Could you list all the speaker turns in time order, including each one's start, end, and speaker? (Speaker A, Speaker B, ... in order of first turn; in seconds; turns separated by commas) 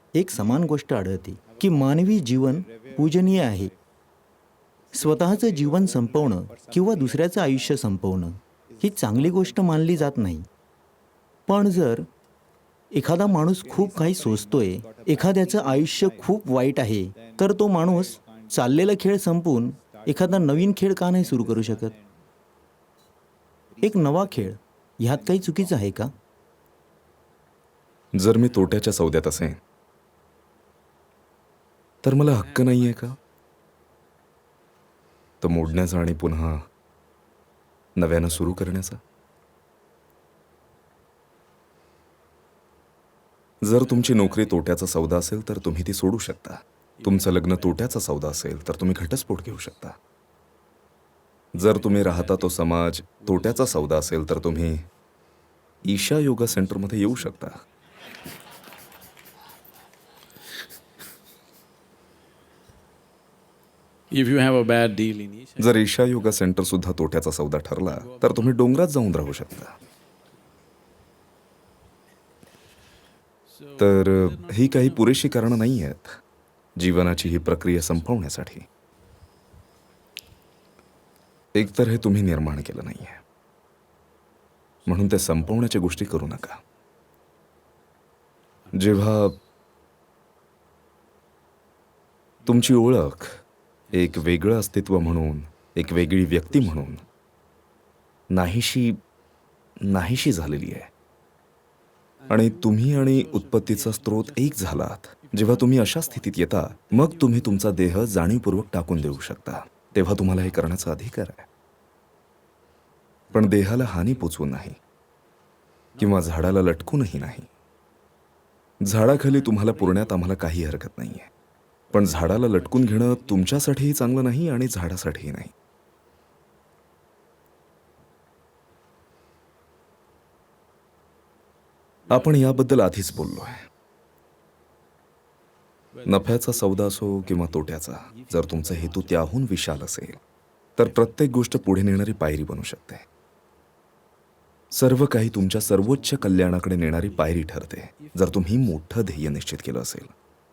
Speaker A: 0.1-3.7, Speaker A: 4.9-10.4, Speaker A: 11.5-12.0, Speaker A: 13.0-21.9, Speaker A: 23.8-26.1, Speaker B: 28.1-29.6, Speaker B: 32.0-33.2, Speaker C: 32.4-33.1, Speaker B: 35.4-36.6, Speaker B: 38.0-39.0, Speaker B: 43.6-50.0, Speaker C: 44.0-44.4, Speaker C: 47.0-48.7, Speaker B: 51.5-54.8, Speaker C: 51.6-52.6, Speaker C: 53.3-54.1, Speaker B: 55.8-57.5, Speaker C: 56.5-57.1, Speaker C: 64.1-65.8, Speaker B: 65.6-69.7, Speaker C: 67.9-68.6, Speaker C: 73.5-75.2, Speaker B: 73.8-76.1, Speaker B: 76.8-78.6, Speaker C: 77.4-77.7, Speaker B: 81.5-83.2, Speaker C: 84.9-86.4, Speaker B: 84.9-86.6, Speaker C: 88.7-89.0, Speaker B: 88.7-89.3, Speaker C: 92.4-92.8, Speaker B: 92.5-93.3, Speaker C: 93.9-94.4, Speaker B: 93.9-97.0, Speaker C: 96.2-97.0, Speaker B: 98.3-99.0, Speaker B: 99.9-100.9, Speaker C: 102.2-108.3, Speaker B: 102.3-111.4, Speaker C: 110.1-110.7, Speaker C: 113.3-113.9, Speaker B: 113.3-114.8, Speaker C: 116.0-116.4, Speaker B: 116.0-117.5, Speaker B: 118.8-121.3, Speaker C: 119.0-120.2, Speaker C: 121.9-123.5, Speaker B: 121.9-125.5, Speaker C: 132.1-132.9, Speaker B: 132.1-133.6, Speaker C: 135.9-139.3, Speaker B: 136.1-140.2, Speaker B: 140.8-143.0, Speaker C: 140.8-142.0, Speaker B: 144.7-150.1, Speaker C: 145.8-146.7, Speaker C: 148.0-149.1